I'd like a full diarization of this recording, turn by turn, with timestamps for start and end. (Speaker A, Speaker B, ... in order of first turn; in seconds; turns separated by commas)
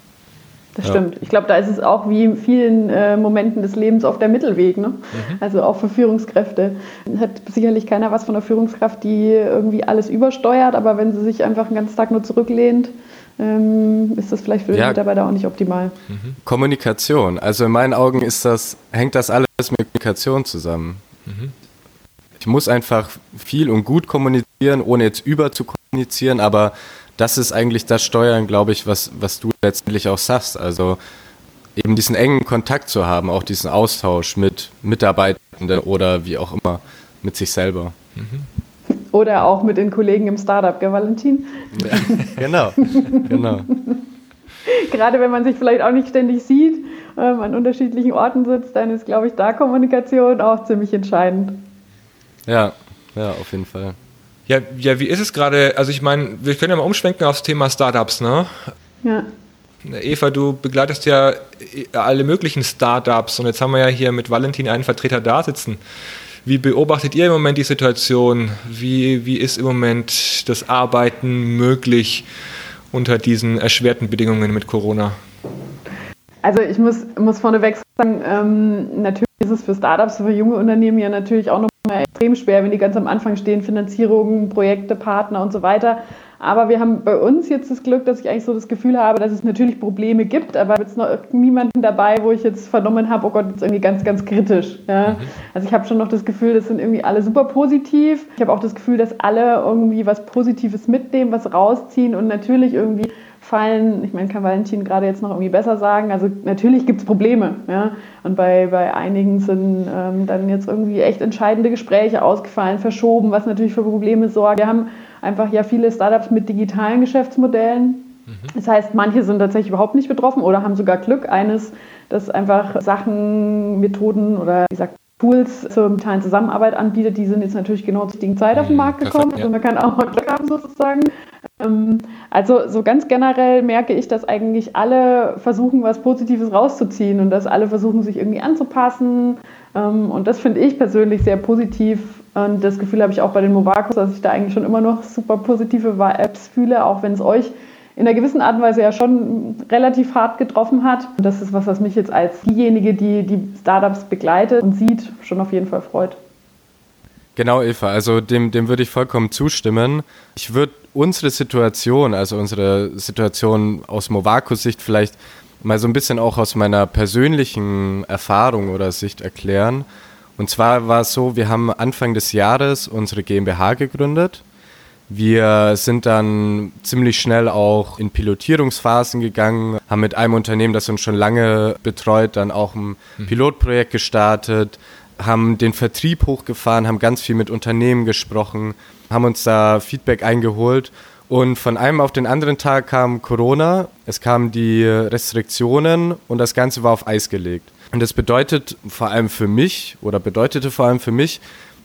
Speaker A: 0.8-15.9, Speaker B: 5.1-5.4, Speaker C: 14.7-15.0, Speaker B: 16.1-16.4, Speaker C: 16.4-21.0, Speaker B: 21.2-21.5, Speaker C: 22.4-31.0, Speaker C: 31.8-37.9, Speaker B: 38.2-38.5, Speaker A: 39.1-44.0, Speaker C: 41.7-43.7, Speaker A: 44.6-51.6, Speaker C: 52.5-54.0, Speaker B: 54.5-58.7, Speaker B: 59.8-65.8, Speaker B: 66.5-72.2, Speaker B: 72.9-75.2, Speaker A: 76.4-156.2, Speaker B: 95.0-95.3, Speaker B: 128.5-129.5, Speaker C: 157.3-169.8, Speaker C: 170.4-174.4, Speaker C: 175.1-201.4